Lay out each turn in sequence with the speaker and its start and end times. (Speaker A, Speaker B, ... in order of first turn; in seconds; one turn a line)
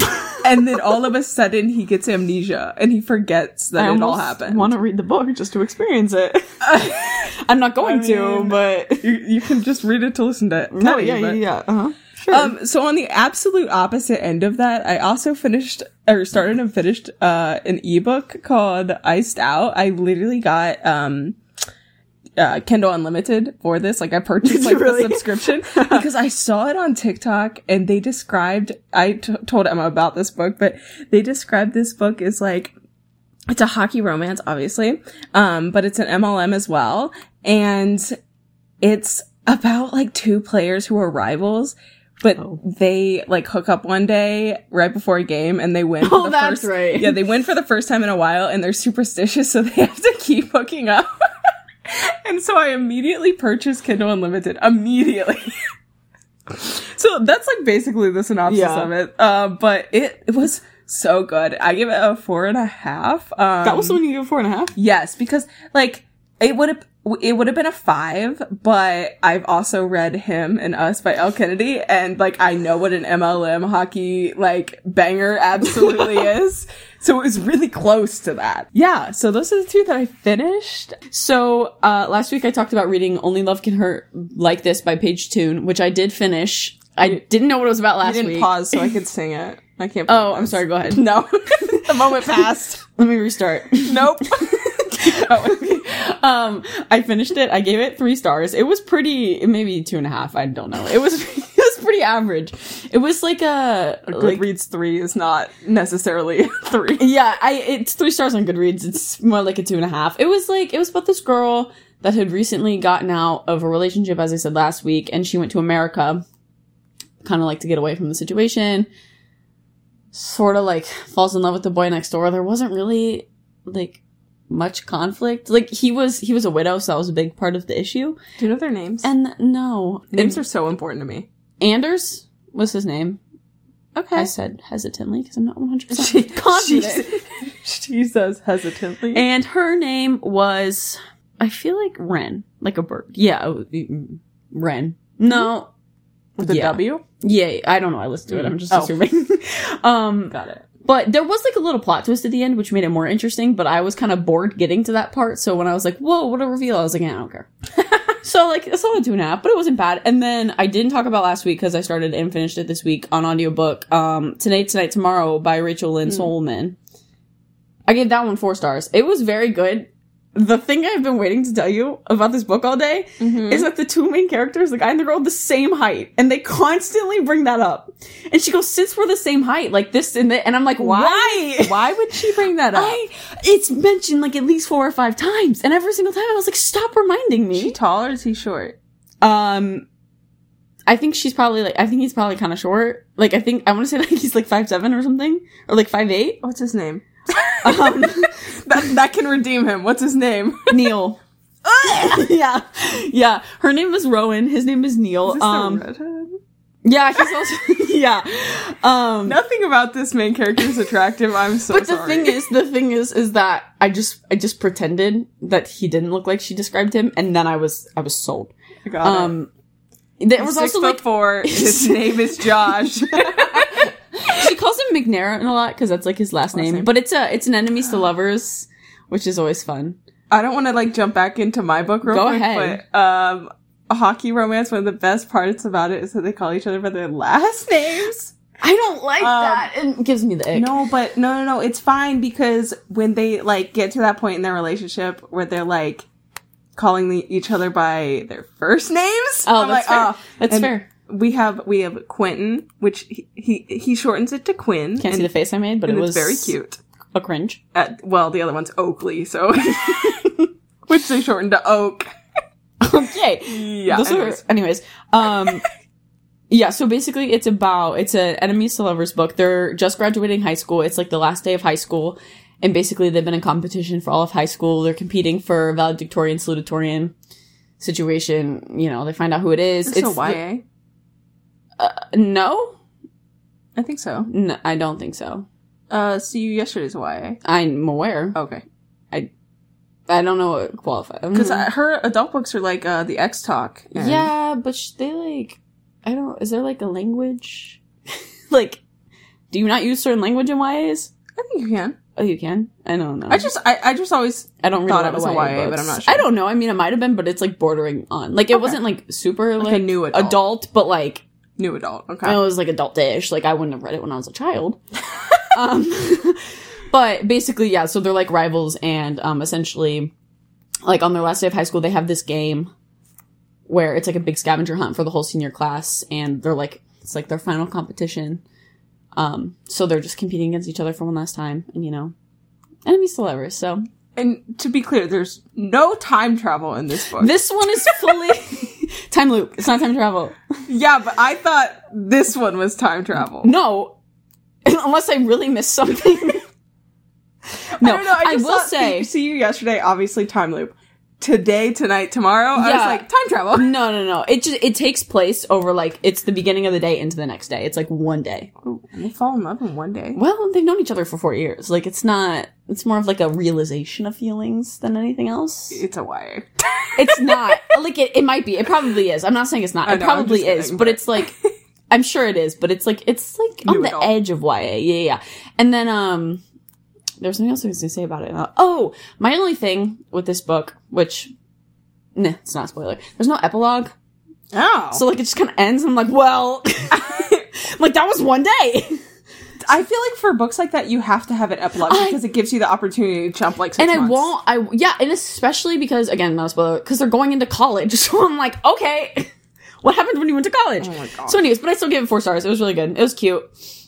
Speaker A: 0.4-4.7
Speaker B: 3.8-9.1
Speaker A: 6.6-11.4
Speaker B: 10.7-12.5
Speaker A: 12.3-21.4
Speaker A: 22.4-32.7
Speaker B: 24.4-26.1
Speaker A: 33.5-38.1
Speaker A: 38.8-51.1
Speaker B: 46.0-47.2
Speaker A: 51.9-55.5
Speaker A: 56.5-64.0
Speaker B: 58.5-58.9
Speaker B: 63.6-64.7
Speaker A: 64.8-81.0
Speaker B: 81.1-89.0
Speaker A: 88.0-92.8
Speaker B: 90.1-91.0
Speaker B: 93.0-104.4
Speaker A: 93.8-95.8
Speaker A: 104.1-107.1
Speaker B: 107.0-116.2
Speaker B: 117.2-118.9
Speaker B: 120.1-124.0
Speaker B: 124.5-128.2
Speaker A: 128.4-129.1
Speaker B: 129.0-130.4
Speaker A: 130.1-131.3
Speaker B: 131.6-133.2
Speaker A: 133.9-134.3
Speaker B: 134.1-137.1
Speaker A: 135.9-139.2
Speaker B: 139.1-145.7
Speaker B: 146.4-157.5
Speaker A: 146.4-147.0
Speaker A: 148.3-148.9
Speaker A: 150.3-150.7
Speaker B: 158.2-166.8
Speaker B: 167.9-181.9
Speaker A: 173.2-173.7
Speaker A: 180.8-183.0
Speaker B: 182.7-187.8
Speaker A: 187.5-188.8
Speaker B: 189.2-189.8
Speaker B: 190.9-196.4
Speaker A: 196.4-200.9
Speaker B: 197.6-198.5
Speaker B: 200.7-205.8
Speaker A: 205.3-206.4
Speaker B: 206.8-209.4
Speaker A: 209.3-212.4
Speaker B: 211.7-219.5
Speaker A: 218.8-219.3
Speaker B: 220.2-222.2
Speaker A: 220.4-223.9
Speaker B: 223.0-230.0
Speaker A: 226.5-226.9
Speaker A: 230.3-238.3
Speaker B: 232.1-232.8
Speaker B: 238.6-240.7
Speaker A: 239.2-239.7
Speaker A: 240.5-246.1
Speaker A: 246.8-255.3
Speaker B: 249.4-250.9
Speaker B: 255.0-256.5
Speaker A: 255.8-256.8
Speaker B: 257.1-257.6
Speaker A: 257.7-260.4
Speaker B: 260.0-260.4
Speaker A: 260.9-262.1
Speaker B: 262.8-265.6
Speaker A: 263.4-264.4
Speaker B: 266.5-277.1
Speaker B: 277.8-280.4
Speaker A: 279.9-280.6
Speaker B: 281.8-282.8
Speaker A: 283.8-284.3
Speaker B: 284.3-285.5
Speaker A: 285.9-287.4
Speaker B: 287.4-288.4
Speaker A: 288.4-288.6
Speaker B: 290.1-291.7
Speaker A: 291.3-294.3
Speaker B: 293.9-297.8
Speaker B: 298.5-298.8
Speaker B: 299.5-301.1
Speaker A: 301.4-302.0
Speaker B: 302.2-303.5
Speaker A: 303.3-306.3
Speaker B: 304.6-311.2
Speaker A: 309.6-310.4
Speaker A: 311.6-312.4
Speaker B: 312.2-314.8
Speaker B: 315.5-320.1
Speaker B: 320.8-322.7
Speaker B: 323.7-328.4
Speaker B: 329.2-332.1
Speaker B: 332.9-333.8
Speaker A: 334.2-338.2
Speaker B: 337.2-340.4
Speaker A: 340.7-343.5
Speaker B: 343.4-344.0
Speaker B: 344.7-346.4
Speaker B: 347.8-349.1
Speaker A: 347.8-353.7
Speaker B: 352.6-358.5
Speaker A: 358.6-360.2
Speaker B: 360.2-365.8
Speaker A: 365.7-367.6
Speaker B: 367.0-371.4
Speaker A: 369.9-371.5
Speaker B: 371.9-376.4
Speaker A: 373.6-374.1
Speaker B: 377.2-381.3
Speaker B: 382.2-383.9
Speaker A: 384.5-385.0
Speaker B: 384.9-389.0
Speaker A: 386.9-387.4
Speaker A: 389.7-394.3
Speaker B: 391.9-392.2
Speaker B: 393.8-399.3
Speaker B: 399.8-403.5
Speaker A: 400.8-401.4